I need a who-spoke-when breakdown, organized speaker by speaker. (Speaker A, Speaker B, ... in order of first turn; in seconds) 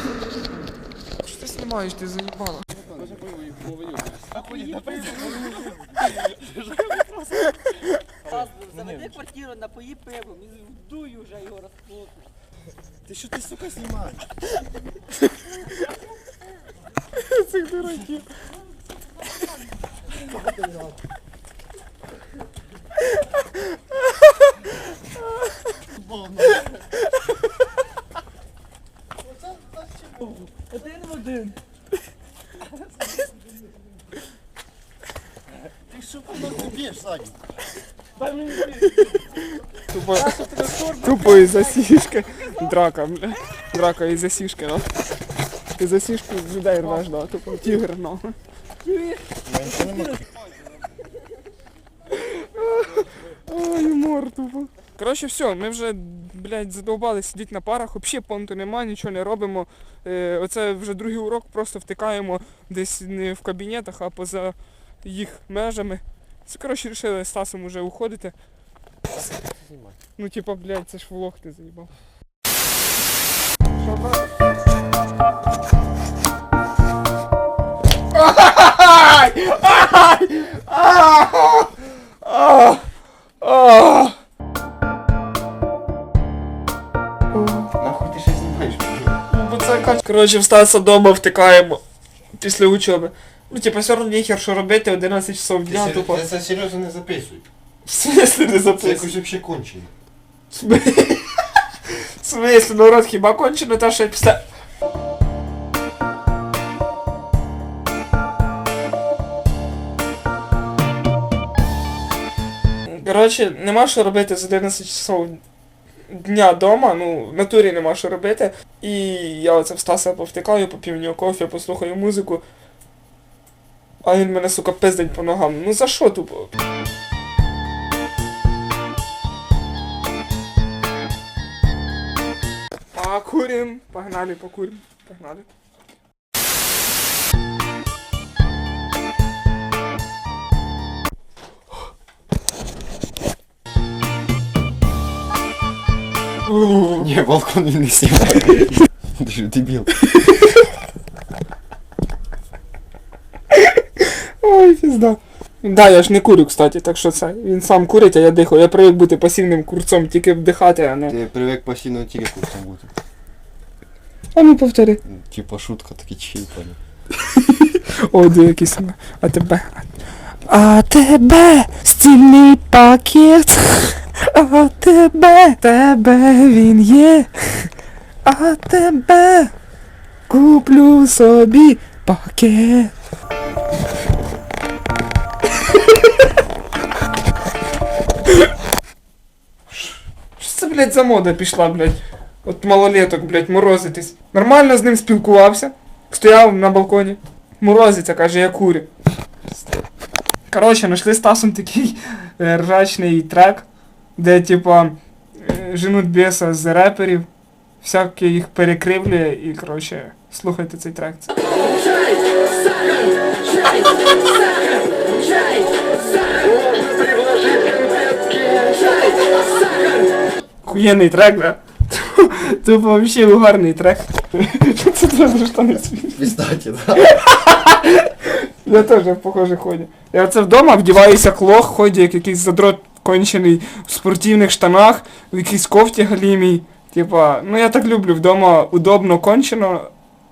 Speaker A: 1.2-2.7, 17.1-18.3, 38.7-44.9, 45.8-48.4, 52.1-68.3, 70.2-71.9, 73.8-74.2, 78.1-81.7, 82.2-82.8, 83.4-84.2, 87.3-87.7, 89.3-91.8, 92.3-96.2, 97.8-99.1, 100.5-104.4, 112.8-115.4, 116.1-122.4, 124.0-126.5, 132.9-135.5, 146.4-147.1, 150.1-150.5, 153.5-161.2, 164.3-165.0, 167.3-169.9, 170.5-177.7, 178.2-179.5, 180.3-182.9, 189.7-198.9, 200.5-207.3, 207.8-211.3, 220.6-226.3, 227.0-239.9
Speaker B: 8.6-11.7
Speaker C: 13.2-14.0, 36.4-37.2, 49.5-50.2, 69.5-69.9, 87.7-89.2, 95.7-97.5, 98.8-99.9, 146.9-149.9, 161.1-162.9, 165.1-166.8, 226.2-227.1